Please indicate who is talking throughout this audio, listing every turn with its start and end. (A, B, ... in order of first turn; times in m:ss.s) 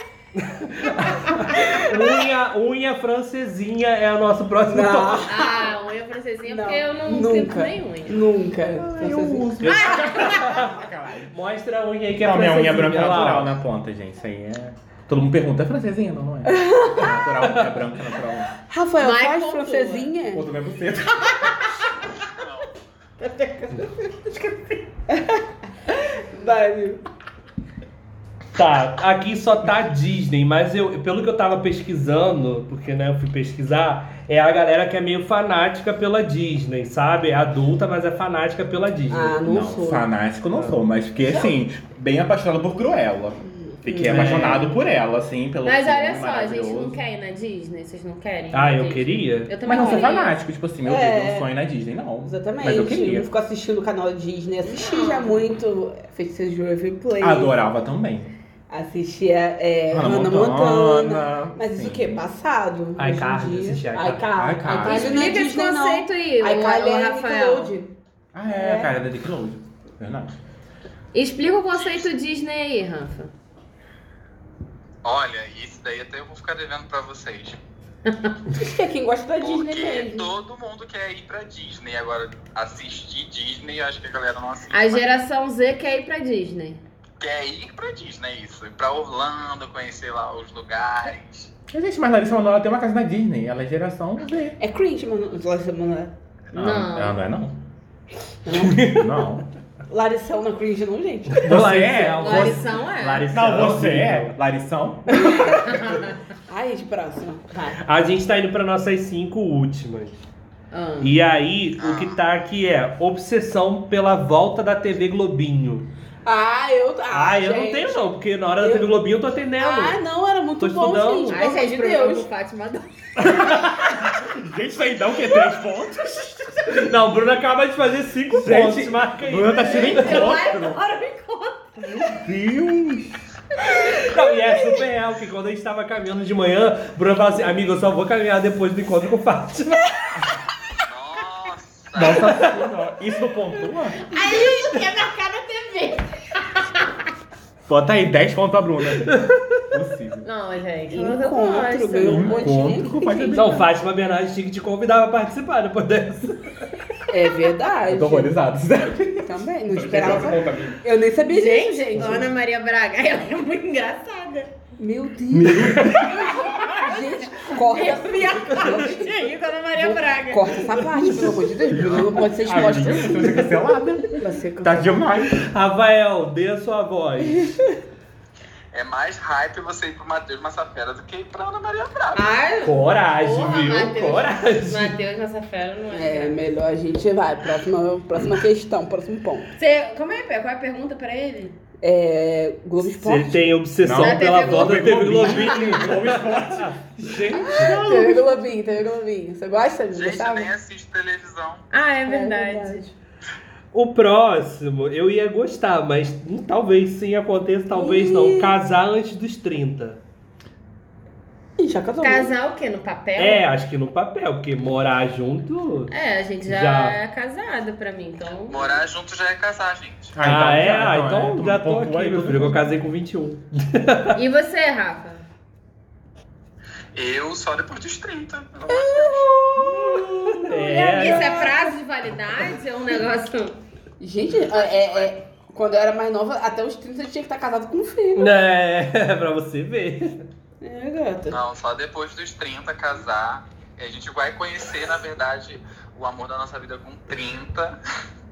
0:00.4-0:05.3 A
0:01.3-0:02.2 B
0:04.7-0:05.7 B
0:05.2-0:08.2 C
0:06.4-0:09.6 B
0:08.8-0:11.3 D
0:09.6-0:10.8 A
0:09.6-0:10.6 C
0:11.3-0:13.5 A
0:12.1-0:18.5 D
0:16.4-0:17.3 B
0:18.7-0:20.4 B
0:19.0-0:20.1 C
0:20.3-0:21.8 D
0:21.4-0:21.7 C
0:22.3-0:22.7 E
0:23.2-0:24.8 C
0:25.1-0:27.0 B
0:28.5-0:39.4 A
0:39.1-0:40.0 B
0:39.4-0:47.0 D
0:43.7-0:44.8 B
0:44.1-0:44.6 A
0:45.6-0:50.4 C
0:48.5-0:49.6 A
0:49.6-0:53.3 D
0:49.7-0:50.2 B
0:50.8-0:51.5 B
0:52.2-0:57.5 B
0:54.6-0:55.4 C
0:57.2-0:58.3 D
0:58.7-1:07.9 B
0:59.9-1:02.2 D
1:03.0-1:04.3 A
1:04.3-1:05.4 D
1:04.8-1:07.7 C
1:08.3-1:10.3 D
1:08.5-1:08.9 B
1:11.1-1:13.3 C
1:11.7-1:12.1 E
1:15.0-1:17.6 E
1:18.1-1:18.4 C
1:18.5-1:20.3 B
1:19.4-1:25.0 E
1:24.7-1:26.8 C
1:27.2-1:31.5 E
1:31.7-1:34.6 D
1:34.6-1:36.1 B
1:36.5-1:37.2 C
1:36.5-1:37.6 D
1:38.4-1:39.0 B
1:38.7-1:39.4 D
1:39.9-1:41.6 B
1:41.4-1:44.3 A
1:41.4-1:42.6 D
1:42.2-1:43.3 C
1:43.3-1:45.6 D
1:45.1-1:45.8 B
1:45.6-1:46.2 C
1:46.5-1:47.8 B
1:47.8-1:50.2 A
1:50.7-1:51.1 C
1:51.0-1:55.8 A
1:51.8-1:52.2 E
1:56.2-1:58.0 B
1:57.1-2:00.0 A
1:58.6-1:58.9 B
1:59.6-2:02.3 B
2:00.6-2:01.4 A
2:01.3-2:03.6 C
2:03.2-2:03.8 A
2:03.3-2:06.9 D
2:06.7-2:10.3 A
2:08.3-2:10.8 D
2:09.6-2:12.1 C
2:11.8-2:13.2 D
2:14.0-2:19.9 A
2:20.9-2:22.4 E
2:21.9-2:24.0 D
2:24.0-2:26.9 C
2:27.7-2:30.2 D
2:29.0-2:29.6 A
2:30.2-2:32.5 C
2:30.9-2:33.7 B
2:32.0-2:33.6 D
2:33.4-2:36.6 A
2:37.1-2:38.3 B
2:37.8-2:40.8 D
2:39.2-2:42.3 B
2:41.3-2:44.5 C
2:44.8-2:49.2 B
2:45.3-2:46.3 D
2:46.1-2:50.7 C
2:49.7-2:53.5 B
2:51.8-2:55.4 D
2:51.8-2:52.2 E
2:54.1-2:55.0 B
2:55.4-2:57.5 A
2:58.7-3:02.2 E
3:02.1-3:06.4 C
3:02.6-3:05.0 A
3:05.9-3:09.5 B
3:09.6-3:11.5 C
3:11.8-3:13.5 B
3:12.8-3:16.7 A
3:13.8-3:18.4 D
3:13.9-3:15.8 C
3:17.3-3:20.5 B
3:19.9-3:21.7 E
3:21.7-3:22.9 C
3:22.1-3:22.8 B
3:23.7-3:30.0 A
3:27.7-3:28.6 B
3:31.6-3:32.3 B
3:32.0-3:33.4 C
3:33.2-3:35.9 A
3:35.9-3:38.8 C
3:36.4-3:37.0 A
3:38.5-3:40.2 E
3:40.1-3:42.7 D
3:40.2-3:44.2 A
3:44.1-3:45.2 C
3:46.9-3:49.4 E
3:48.7-3:51.7 B
3:49.6-3:50.5 D
3:50.3-3:51.5 A
3:50.8-3:53.6 C
3:54.0-3:58.4 B
3:54.5-3:55.1 E
3:58.1-4:00.2 A
4:00.6-4:01.4 B
4:01.3-4:07.8 E